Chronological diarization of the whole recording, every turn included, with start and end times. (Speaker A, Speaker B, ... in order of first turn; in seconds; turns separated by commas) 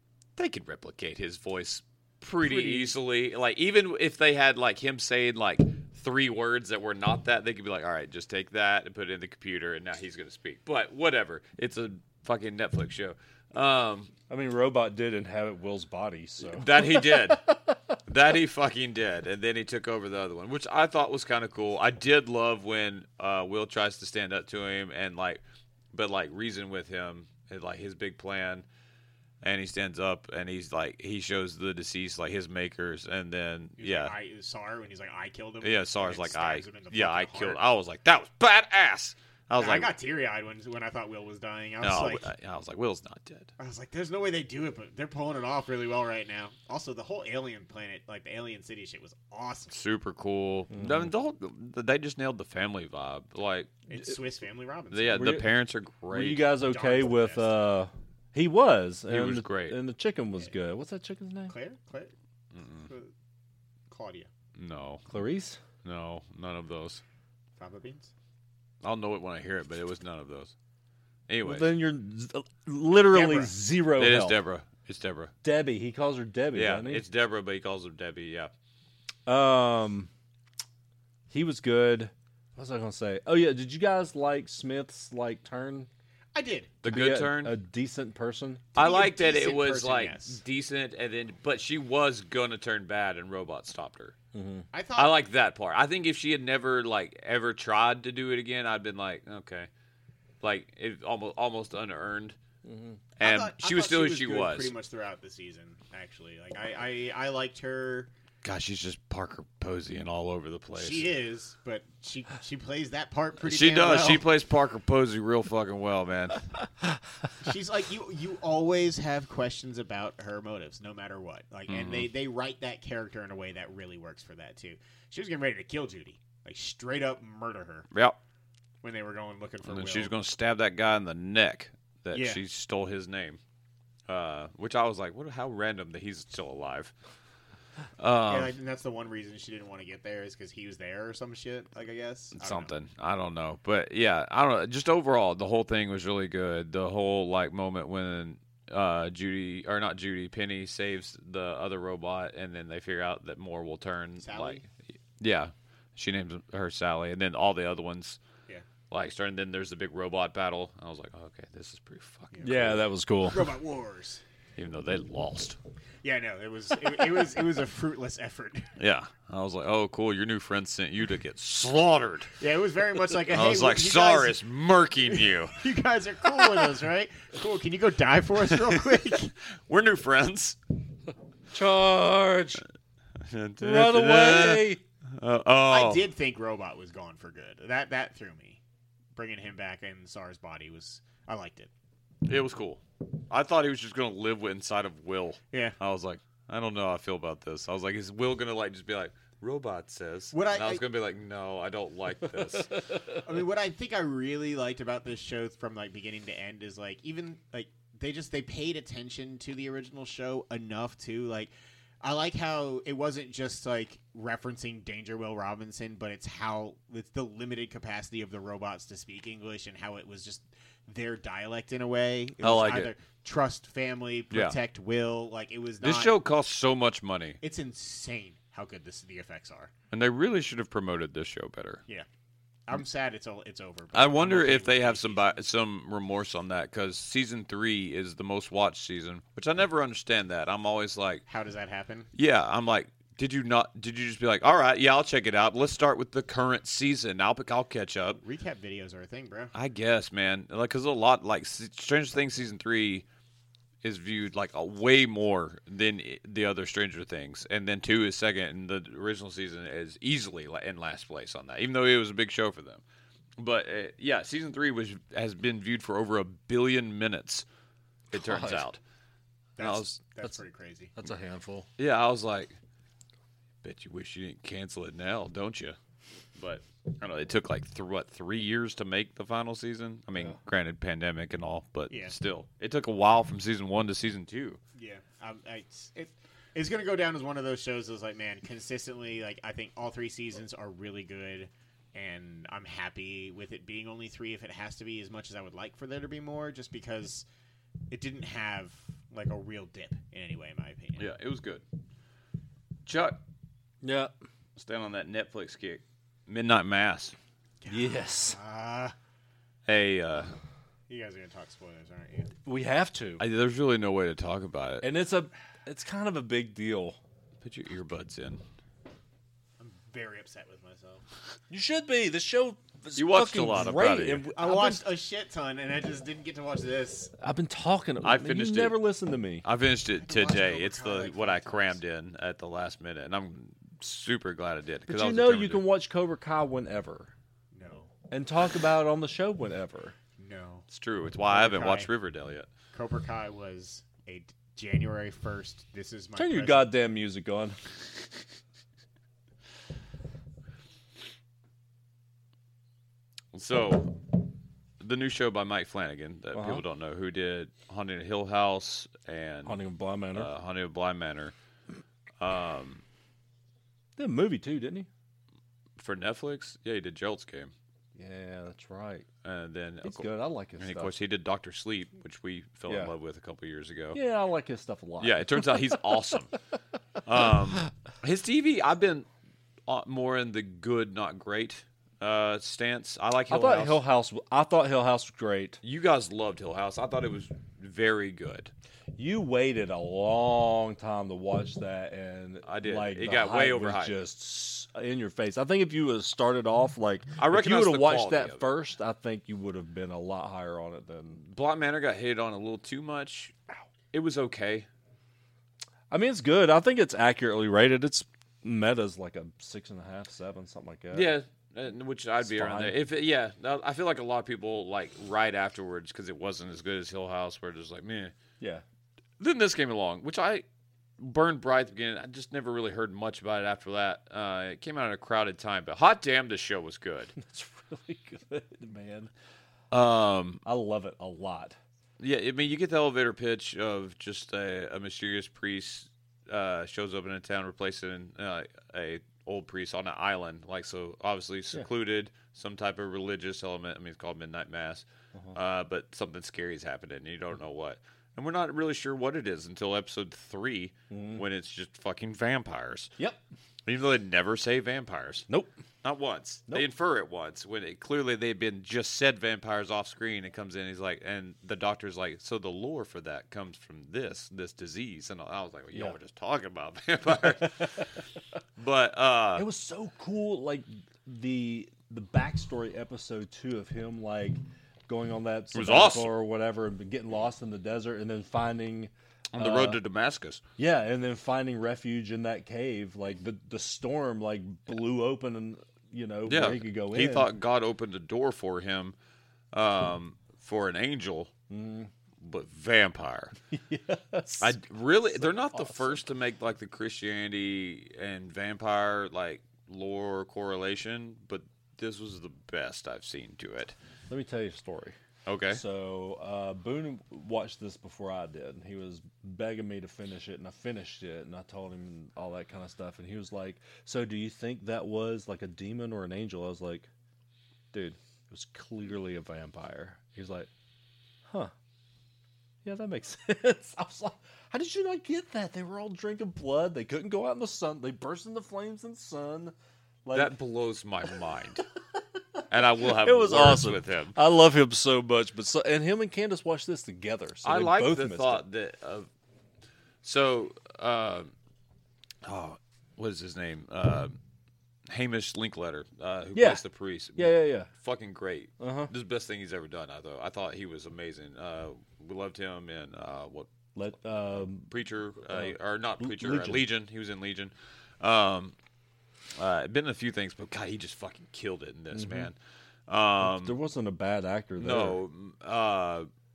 Speaker A: 0.4-14.1, Speaker B: 2.4-2.9, Speaker B: 14.3-17.8, Speaker A: 16.5-17.5, Speaker A: 18.1-25.4, Speaker A: 25.9-28.7, Speaker A: 29.4-34.1, Speaker C: 33.8-37.6, Speaker A: 35.6-39.9, Speaker C: 39.6-42.3, Speaker A: 41.8-43.5, Speaker C: 43.6-49.8, Speaker A: 49.7-53.7, Speaker B: 50.7-51.1, Speaker C: 53.9-55.4, Speaker A: 54.9-56.5, Speaker B: 55.1-55.5, Speaker B: 56.1-61.5, Speaker C: 56.6-57.5, Speaker A: 59.1-59.8, Speaker C: 61.5-62.1, Speaker A: 62.5-62.9, Speaker C: 62.8-63.1, Speaker C: 63.9-64.3, Speaker A: 64.6-65.1, Speaker B: 65.1-65.6, Speaker A: 65.8-67.0, Speaker C: 67.6-68.1, Speaker A: 68.8-70.5, Speaker A: 71.3-71.7, Speaker B: 71.4-74.4, Speaker C: 73.1-73.5, Speaker A: 74.0-75.3, Speaker B: 75.4-77.0, Speaker A: 76.5-78.5, Speaker B: 79.3-80.1, Speaker B: 81.3-85.9, Speaker C: 86.3-86.8, Speaker A: 86.8-87.5, Speaker B: 86.9-88.7, Speaker C: 88.8-90.4, Speaker A: 88.8-94.2, Speaker B: 94.3-94.7, Speaker C: 94.7-95.2, Speaker A: 95.0-99.7, Speaker A: 100.4-102.4, Speaker B: 102.7-103.0, Speaker A: 103.2-104.7, Speaker C: 103.2-108.1, Speaker A: 108.4-111.1, Speaker C: 110.8-114.2, Speaker A: 113.4-116.4, Speaker C: 117.4-127.9, Speaker A: 121.7-122.1, Speaker A: 127.9-128.2, Speaker C: 128.8-130.1, Speaker A: 129.7-133.4, Speaker C: 132.1-132.4, Speaker A: 134.1-136.9, Speaker A: 138.0-138.5, Speaker C: 138.3-142.7, Speaker A: 142.3-158.2, Speaker C: 154.2-154.7, Speaker A: 158.9-162.8, Speaker C: 162.3-164.2, Speaker B: 162.4-163.5, Speaker A: 164.6-165.6, Speaker C: 166.0-168.7, Speaker A: 168.8-172.3, Speaker C: 172.4-174.4, Speaker A: 173.3-175.6, Speaker C: 175.1-179.3, Speaker A: 178.5-180.6, Speaker B: 181.5-182.6, Speaker A: 183.2-186.1, Speaker B: 183.6-184.8, Speaker C: 185.7-188.6, Speaker C: 189.2-191.7, Speaker A: 192.2-202.8, Speaker C: 195.5-195.8, Speaker C: 200.3-200.8, Speaker B: 202.4-203.2, Speaker C: 203.2-226.1, Speaker A: 222.4-222.9, Speaker A: 225.8-227.4, Speaker C: 227.4-229.7, Speaker A: 229.9-231.8, Speaker C: 232.7-235.4, Speaker A: 233.9-241.2, Speaker C: 241.3-242.1, Speaker A: 242.2-248.2, Speaker C: 248.2-249.5, Speaker A: 249.5-253.1, Speaker A: 253.8-262.8, Speaker A: 263.4-267.4, Speaker B: 268.1-268.6, Speaker A: 268.1-268.8, Speaker C: 269.6-270.9, Speaker A: 269.6-270.0, Speaker B: 271.0-271.7, Speaker A: 271.8-272.6, Speaker A: 273.6-275.8, Speaker A: 276.4-284.6, Speaker C: 281.9-282.1, Speaker C: 284.8-297.2, Speaker C: 297.9-301.1, Speaker A: 301.0-301.6, Speaker A: 302.9-303.2, Speaker B: 303.8-304.1, Speaker A: 304.6-307.1, Speaker C: 307.6-308.9, Speaker B: 307.7-308.4, Speaker A: 309.7-310.4, Speaker C: 310.9-312.4, Speaker B: 312.4-313.2, Speaker A: 313.2-314.9, Speaker B: 314.8-317.0, Speaker A: 317.4-318.4, Speaker C: 319.6-321.0, Speaker B: 321.5-324.9, Speaker A: 322.9-324.3, Speaker C: 324.4-327.1, Speaker B: 327.2-329.4, Speaker A: 328.0-328.8, Speaker A: 329.4-335.6, Speaker C: 330.0-331.8, Speaker B: 334.9-337.1, Speaker C: 337.5-337.9, Speaker B: 338.1-339.9, Speaker C: 340.2-340.6, Speaker A: 340.7-342.5, Speaker C: 341.3-341.9, Speaker C: 342.7-346.7, Speaker B: 346.2-347.6, Speaker A: 353.3-354.2, Speaker A: 354.8-359.6, Speaker B: 356.3-356.6, Speaker B: 359.4-360.3, Speaker A: 360.1-361.3, Speaker A: 362.2-362.8, Speaker B: 364.0-364.9, Speaker A: 365.8-367.5, Speaker B: 368.0-369.1, Speaker A: 369.2-374.0, Speaker B: 369.8-370.9, Speaker B: 372.7-372.9, Speaker B: 373.9-376.0, Speaker A: 375.0-376.3, Speaker A: 377.1-379.1, Speaker A: 379.7-383.8, Speaker B: 383.3-385.6, Speaker A: 385.6-388.5, Speaker B: 389.0-401.2, Speaker A: 392.4-393.9, Speaker A: 397.2-398.5, Speaker A: 401.2-403.3, Speaker A: 403.9-404.7, Speaker B: 405.9-411.1, Speaker A: 410.9-418.1, Speaker B: 412.2-412.8, Speaker A: 419.2-420.4, Speaker A: 421.0-427.1, Speaker B: 427.2-429.1, Speaker A: 429.7-430.4, Speaker B: 430.4-431.6, Speaker A: 432.0-452.9, Speaker B: 450.9-451.2, Speaker A: 453.7-455.3, Speaker A: 455.8-467.9, Speaker B: 467.2-467.8, Speaker A: 468.6-469.5, Speaker B: 469.4-479.8, Speaker A: 475.5-476.1, Speaker A: 479.3-480.4, Speaker B: 480.6-487.3, Speaker A: 486.3-488.9, Speaker A: 489.5-491.3, Speaker B: 491.5-491.9, Speaker A: 492.2-493.4, Speaker B: 493.5-494.6, Speaker A: 494.4-503.8, Speaker B: 495.2-496.0, Speaker B: 504.1-505.0, Speaker A: 505.3-505.6, Speaker B: 505.5-516.9, Speaker B: 517.7-520.5, Speaker B: 521.3-521.5, Speaker B: 522.6-530.3, Speaker A: 530.1-531.6, Speaker B: 532.4-538.4, Speaker A: 532.5-534.2, Speaker A: 537.4-539.1, Speaker A: 540.0-541.3, Speaker A: 542.2-544.2, Speaker A: 544.9-553.5, Speaker B: 546.3-546.6, Speaker B: 547.2-547.7, Speaker B: 548.6-548.9, Speaker B: 553.8-554.7, Speaker A: 554.7-558.5, Speaker B: 555.3-556.6, Speaker A: 559.4-562.4, Speaker B: 561.9-562.3, Speaker A: 562.9-563.5, Speaker B: 563.2-565.0, Speaker A: 564.6-566.1